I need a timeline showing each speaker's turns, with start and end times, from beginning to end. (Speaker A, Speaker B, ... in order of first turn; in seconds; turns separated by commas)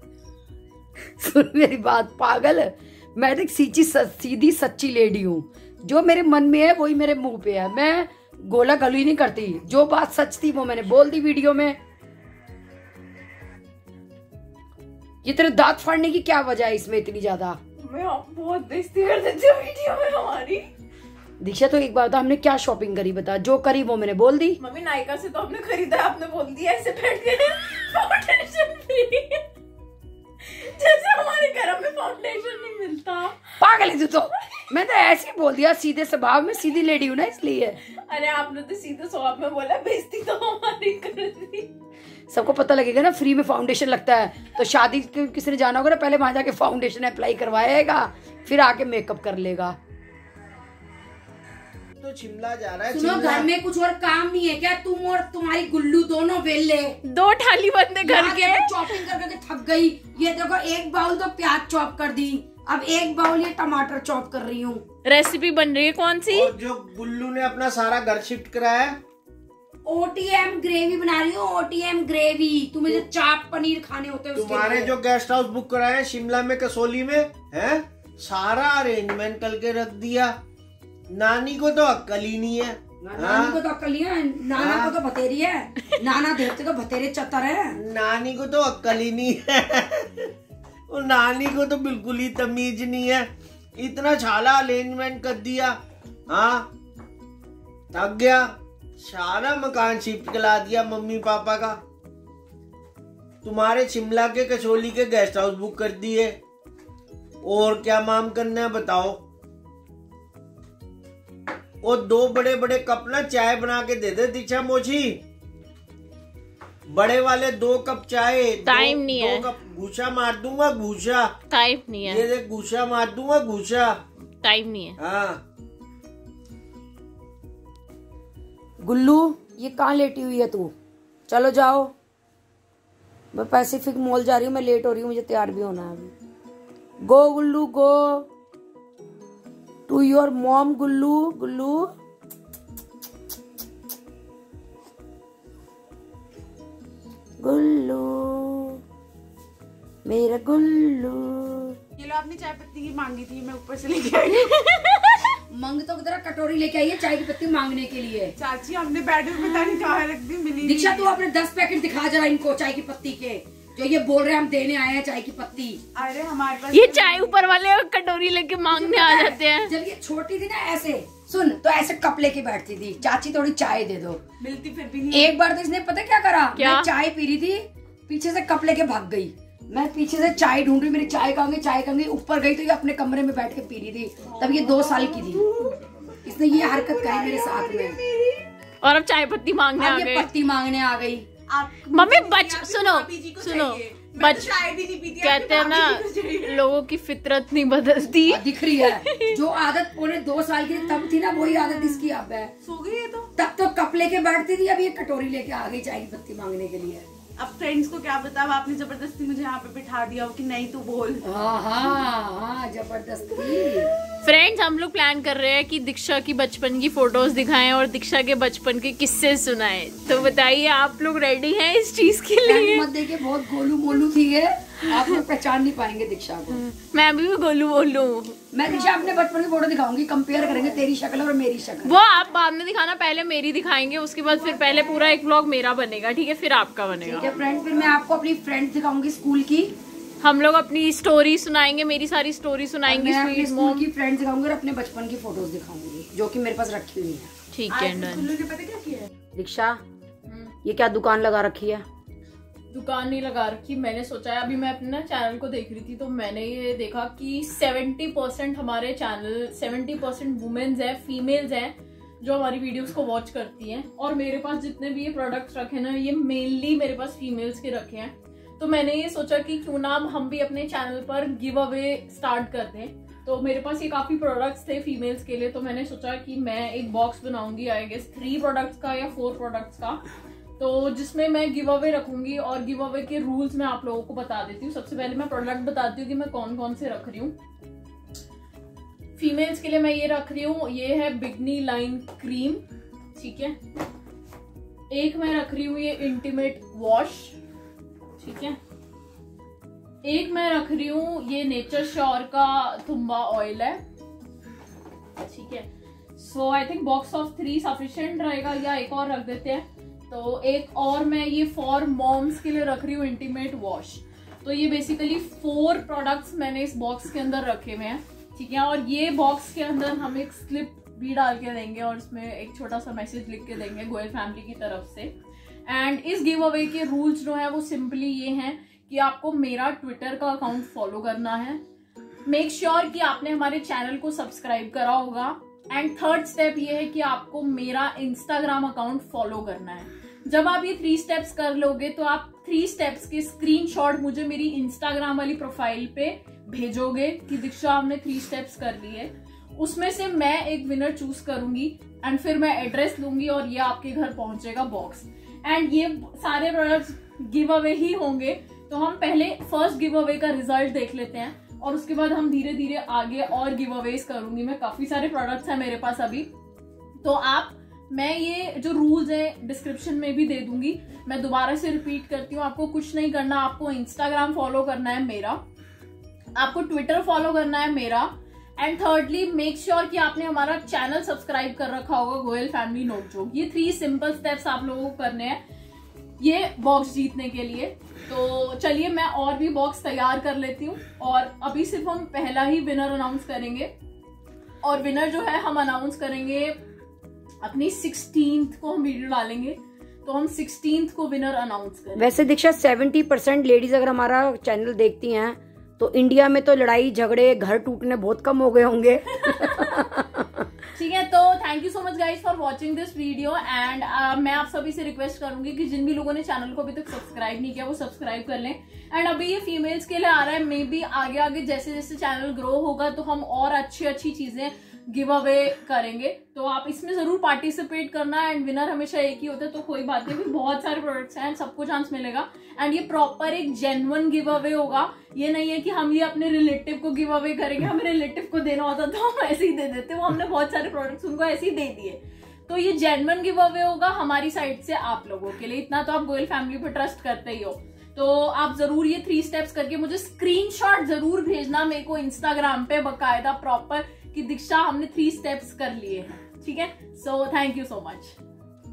Speaker A: 1.1-11.8, Speaker A: 15.2-17.6, Speaker B: 17.8-20.7, Speaker A: 21.4-24.6, Speaker B: 24.6-29.4, Speaker B: 30.4-33.5, Speaker A: 33.6-37.8, Speaker B: 37.9-41.7, Speaker A: 42.3-49.8, Speaker C: 52.0-53.5, Speaker A: 52.9-57.0, Speaker B: 57.0-59.1, Speaker A: 58.0-64.8, Speaker B: 65.0-66.5, Speaker C: 66.3-69.0, Speaker A: 69.8-74.9, Speaker C: 74.3-80.3, Speaker C: 81.1-83.6, Speaker A: 83.0-87.8, Speaker C: 84.6-84.9, Speaker C: 87.8-90.3, Speaker C: 90.9-95.8, Speaker C: 96.3-96.7, Speaker C: 97.9-101.8, Speaker C: 103.4-106.4, Speaker C: 107.4-109.2, Speaker C: 111.8-115.2, Speaker C: 116.9-121.3, Speaker B: 118.6-119.5, Speaker B: 121.5-122.2, Speaker C: 122.0-124.0, Speaker B: 124.4-125.0, Speaker C: 125.0-125.4, Speaker A: 128.8-130.7, Speaker A: 131.3-131.9, Speaker A: 133.3-136.1, Speaker A: 137.0-138.3, Speaker A: 139.9-141.9, Speaker A: 147.4-148.8, Speaker A: 150.0-151.8, Speaker D: 151.9-154.6, Speaker B: 154.3-155.3, Speaker A: 155.5-158.3, Speaker D: 158.4-161.2, Speaker A: 160.6-165.8, Speaker D: 165.9-167.4, Speaker B: 166.7-169.7, Speaker A: 169.6-174.2, Speaker D: 174.4-175.3, Speaker A: 175.1-185.4, Speaker B: 176.6-176.9, Speaker D: 184.2-188.5, Speaker A: 186.2-188.0, Speaker B: 188.8-190.3, Speaker A: 189.8-191.3, Speaker D: 191.5-196.7, Speaker B: 191.9-199.4, Speaker A: 198.3-202.5, Speaker D: 202.6-203.3, Speaker A: 203.3-207.1, Speaker D: 207.4-211.2, Speaker A: 211.2-213.9, Speaker B: 214.2-222.9, Speaker A: 222.4-226.7, Speaker B: 226.7-228.4, Speaker A: 228.5-231.9, Speaker B: 231.8-237.3, Speaker A: 237.0-239.7, Speaker B: 240.2-243.9, Speaker A: 242.9-247.3, Speaker B: 247.5-248.3, Speaker D: 247.7-249.1, Speaker A: 249.3-249.8, Speaker B: 250.2-250.5, Speaker A: 250.6-251.8, Speaker B: 252.7-280.0, Speaker B: 280.6-287.3, Speaker B: 289.2-293.6, Speaker B: 294.9-297.3, Speaker B: 298.2-298.6, Speaker B: 300.0-303.8, Speaker B: 305.2-325.1, Speaker B: 325.7-331.6, Speaker B: 332.2-366.3, Speaker B: 367.0-375.4, Speaker B: 376.3-385.4, Speaker B: 386.2-393.7, Speaker B: 394.6-396.6, Speaker B: 397.4-402.1, Speaker A: 402.0-410.3, Speaker B: 409.2-409.8, Speaker B: 410.7-458.1